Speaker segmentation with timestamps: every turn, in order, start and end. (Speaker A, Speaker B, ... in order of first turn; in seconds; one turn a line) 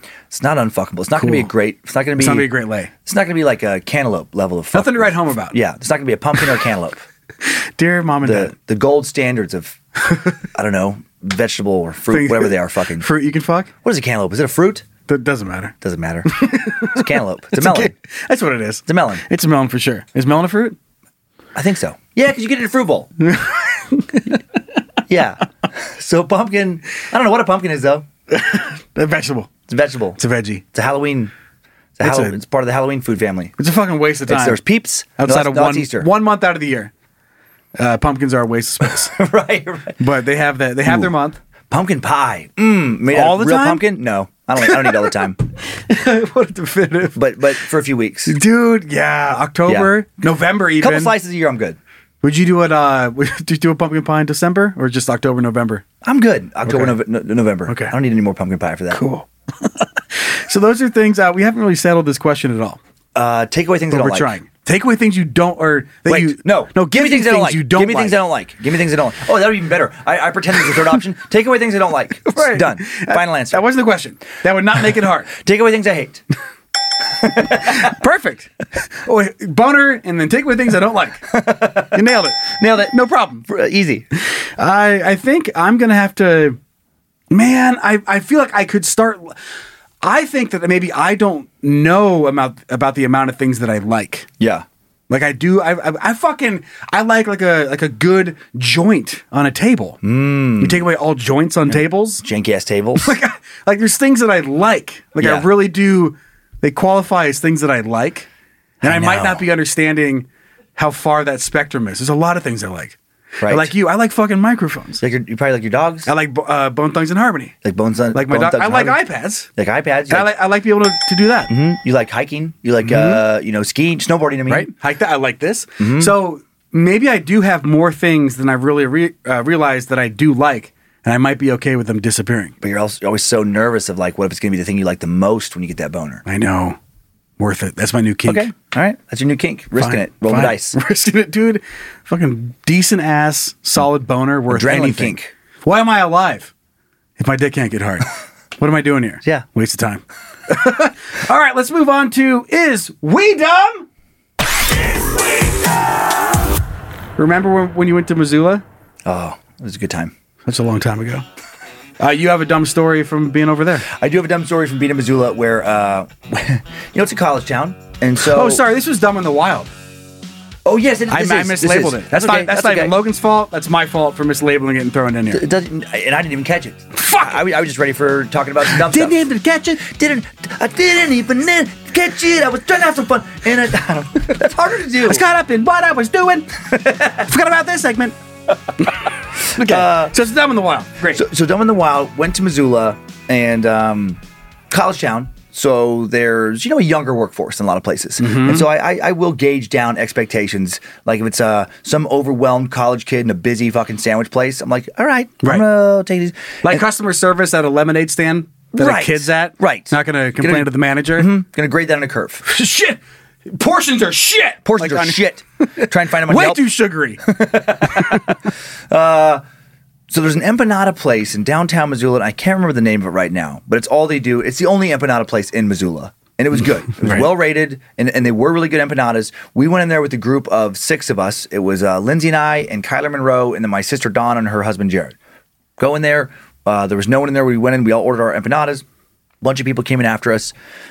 Speaker A: 0.3-2.5
Speaker B: 1.1-1.5
Speaker B: 2.2-2.9
Speaker A: 3.0-7.0
Speaker B: 4.7-5.6
Speaker B: 7.4-8.5
Speaker A: 8.2-9.8
Speaker B: 10.1-10.3
Speaker A: 10.5-13.1
Speaker B: 12.1-13.7
Speaker A: 13.8-14.9
Speaker B: 15.1-15.7
Speaker A: 15.8-17.9
Speaker B: 16.3-20.8
Speaker A: 18.9-19.2
Speaker A: 21.5-23.1
Speaker B: 23.2-24.4
Speaker A: 25.1-28.1
Speaker B: 28.3-29.5
Speaker A: 29.7-30.2
Speaker B: 30.2-30.6
Speaker A: 30.7-31.3
Speaker A: 32.0-33.5
Speaker B: 32.0-32.4
Speaker B: 33.6-34.6
Speaker A: 34.3-36.1
Speaker B: 35.2-36.9
Speaker B: 37.8-39.1
Speaker A: 38.9-40.0
Speaker B: 40.0-41.4
Speaker A: 40.9-41.1
Speaker A: 41.7-45.4
Speaker B: 43.1-43.9
Speaker B: 44.6-45.1
Speaker B: 45.7-47.2
Speaker A: 47.1-48.3
Speaker B: 48.2-51.1
Speaker A: 49.6-50.0
Speaker A: 50.8-51.8
Speaker B: 52.2-55.8
Speaker A: 56.0-59.0
Speaker B: 56.6-57.0
Speaker B: 57.7-57.9
Speaker B: 58.9-62.8
Speaker A: 63.1-64.3
Speaker B: 63.9-68.2
Speaker A: 66.0-73.7
Speaker B: 72.2-75.3
Speaker A: 75.3-76.2
Speaker A: 77.2-77.9
Speaker B: 77.5-81.3
Speaker A: 81.3-84.0
Speaker B: 81.9-83.5
Speaker B: 84.2-86.6
Speaker B: 87.3-89.4
Speaker B: 90.0-94.3
Speaker A: 94.4-94.6
Speaker B: 95.1-100.0
Speaker A: 100.0-100.9
Speaker B: 100.6-102.2
Speaker A: 101.7-103.1
Speaker B: 103.0-108.3
Speaker A: 105.2-105.5
Speaker A: 108.8-109.5
Speaker B: 108.8-115.0
Speaker A: 113.4-113.7
Speaker A: 115.0-116.1
Speaker B: 116.0-117.5
Speaker A: 117.6-119.0
Speaker B: 118.1-119.5
Speaker A: 119.5-120.3
Speaker B: 120.1-121.5
Speaker A: 121.5-124.7
Speaker B: 122.8-123.2
Speaker B: 124.5-132.5
Speaker A: 125.8-126.2
Speaker A: 132.6-136.2
Speaker B: 136.2-136.8
Speaker B: 137.4-138.5
Speaker A: 138.2-140.8
Speaker B: 139.8-146.5
Speaker A: 144.5-145.3
Speaker B: 147.2-153.9
Speaker B: 157.2-158.6
Speaker A: 159.0-160.1
Speaker B: 160.4-161.2
Speaker B: 162.0-163.9
Speaker A: 163.9-168.6
Speaker B: 168.2-169.7
Speaker A: 170.6-172.9
Speaker B: 171.1-175.4
Speaker A: 175.3-179.2
Speaker B: 176.9-177.4
Speaker B: 178.6-179.8
Speaker A: 179.8-185.2
Speaker B: 185.0-186.5
Speaker A: 186.7-187.2
Speaker B: 187.2-188.2
Speaker B: 189.5-191.2
Speaker A: 189.6-190.2
Speaker A: 191.1-206.8
Speaker B: 198.2-198.7
Speaker B: 205.4-205.7
Speaker B: 206.6-211.3
Speaker A: 208.7-212.4
Speaker B: 212.4-217.2
Speaker A: 214.6-216.7
Speaker A: 217.2-218.3
Speaker B: 217.9-218.2
Speaker A: 218.9-219.4
Speaker A: 220.1-235.2
Speaker B: 227.0-227.3
Speaker A: 235.8-238.8
Speaker A: 239.4-240.5